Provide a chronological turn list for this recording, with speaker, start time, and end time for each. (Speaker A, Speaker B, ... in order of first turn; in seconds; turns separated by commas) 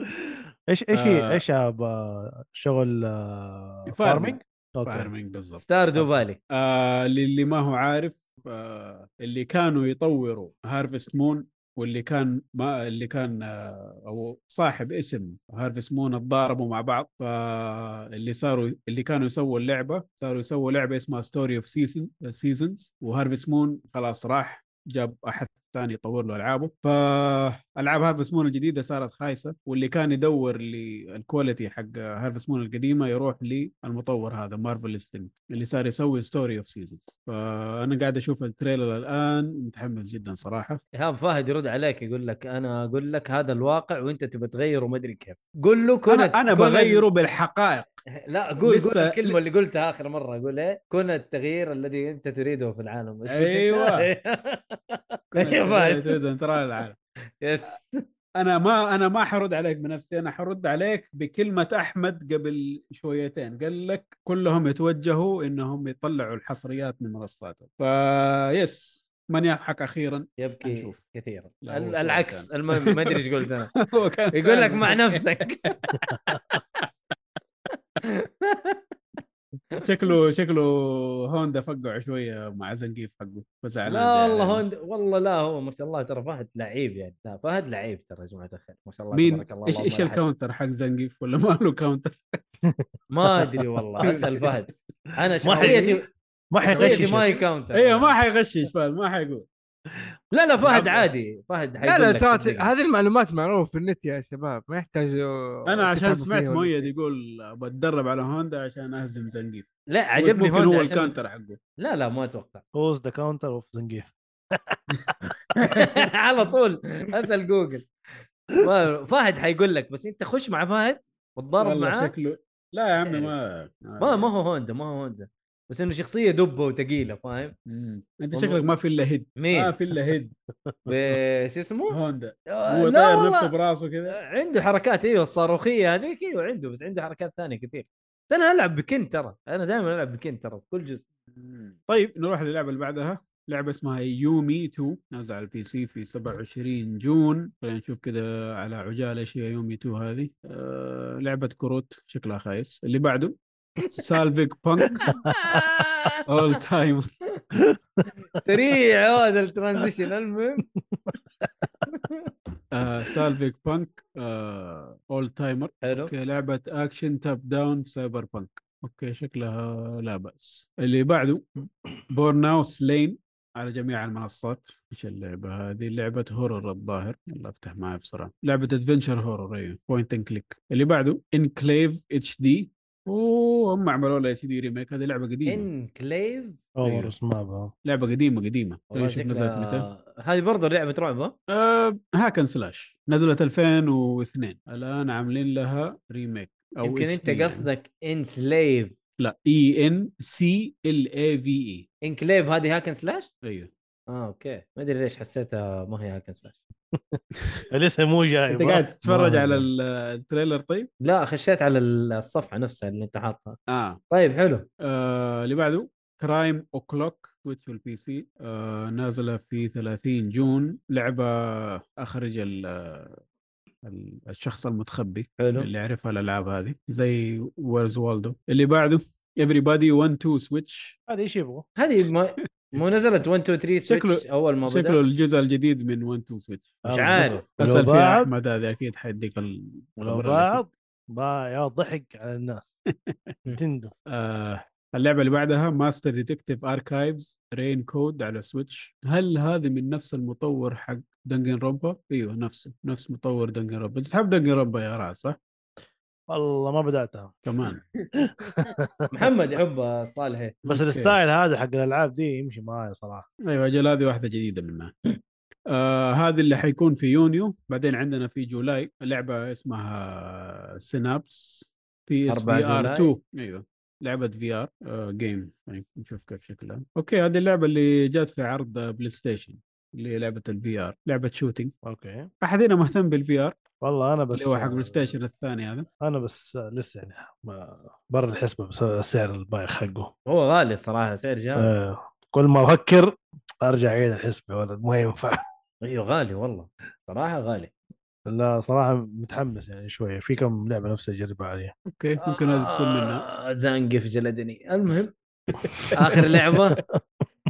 Speaker A: 0.2-5.1, Speaker B: 0.9-1.4, Speaker B: 3.9-5.6, Speaker C: 5.6-6.4, Speaker A: 6.0-6.2, Speaker B: 6.5-40.8, Speaker C: 40.9-47.0, Speaker B: 46.1-47.9, Speaker C: 48.2-56.2, Speaker B: 48.6-49.4, Speaker B: 53.3-54.1, Speaker B: 55.3-57.0, Speaker C: 57.4-58.0, Speaker B: 58.4-71.0, Speaker C: 70.4-73.8, Speaker B: 71.6-73.2, Speaker B: 73.8-75.2, Speaker C: 74.3-75.9, Speaker B: 75.8-76.8, Speaker C: 78.0-78.8, Speaker B: 79.8-84.6, Speaker C: 83.8-90.3, Speaker B: 89.1-92.2, Speaker A: 92.7-93.5, Speaker C: 93.1-96.1, Speaker A: 95.4-95.9, Speaker D: 95.5-96.0, Speaker A: 96.5-97.3, Speaker C: 96.7-98.2, Speaker B: 96.7-97.2, Speaker B: 97.7-99.5, Speaker C: 100.3-102.7, Speaker B: 100.6-101.1, Speaker D: 101.8-106.9, Speaker B: 105.7-111.6, Speaker C: 109.9-111.1, Speaker C: 111.8-112.6, Speaker A: 112.7-115.9, Speaker C: 115.6-117.9, Speaker C: 118.6-122.1, Speaker B: 121.6-124.3, Speaker C: 123.0-123.3, Speaker C: 124.0-127.5, Speaker B: 127.7-130.3, Speaker C: 128.3-128.6, Speaker C: 129.4-129.7, Speaker C: 130.9-132.0, Speaker B: 131.9-134.2, Speaker C: 132.5-133.5, Speaker C: 134.1-141.0, Speaker B: 141.3-153.4, Speaker B: 153.9-155.1, Speaker C: 155.1-156.2, Speaker B: 156.3-157.1, Speaker C: 158.3-160.6, Speaker C: 161.9-162.3, Speaker B: 162.7-171.4, Speaker C: 165.8-166.1, Speaker B: 172.1-185.7, Speaker C: 185.5-186.6, Speaker A: 186.8-187.7, Speaker B: 186.8-187.1, Speaker B: 187.8-189.9, Speaker C: 188.9-191.3, Speaker B: 191.5-197.7, Speaker C: 196.8-198.9, Speaker B: 199.2-201.8, Speaker C: 202.0-203.3, Speaker B: 203.4-203.7, Speaker C: 204.1-206.6, Speaker A: 206.9-207.2, Speaker A: 207.7-209.7, Speaker B: 208.5-210.9, Speaker C: 211.0-213.6, Speaker B: 213.7-214.0, Speaker C: 214.1-214.7, Speaker B: 214.8-223.2, Speaker B: 223.8-230.9, Speaker C: 225.4-225.7, Speaker A: 231.1-231.6, Speaker C: 231.8-235.0, Speaker B: 233.8-240.6, Speaker A: 236.8-238.3, Speaker C: 236.9-237.4, Speaker A: 240.0-242.7, Speaker A: 243.5-243.9, Speaker B: 244.1-255.4, Speaker A: 256.3-257.4, Speaker B: 257.4-257.8, Speaker A: 258.2-259.3, Speaker D: 258.4-258.7, Speaker C: 259.1-260.6, Speaker B: 260.6-261.2, Speaker A: 260.7-263.3, Speaker B: 263.5-264.9, Speaker B: 265.7-281.7, Speaker C: 272.3-273.1, Speaker A: 281.8-282.3, Speaker B: 282.4-283.6, Speaker A: 283.8-285.1, Speaker B: 284.3-285.9, Speaker A: 286.0-290.1, Speaker C: 290.3-291.8, Speaker A: 291.6-295.4, Speaker C: 295.8-297.7, Speaker A: 298.3-301.7, Speaker B: 301.9-303.2, Speaker C: 302.2-305.1, Speaker C: 305.9-306.8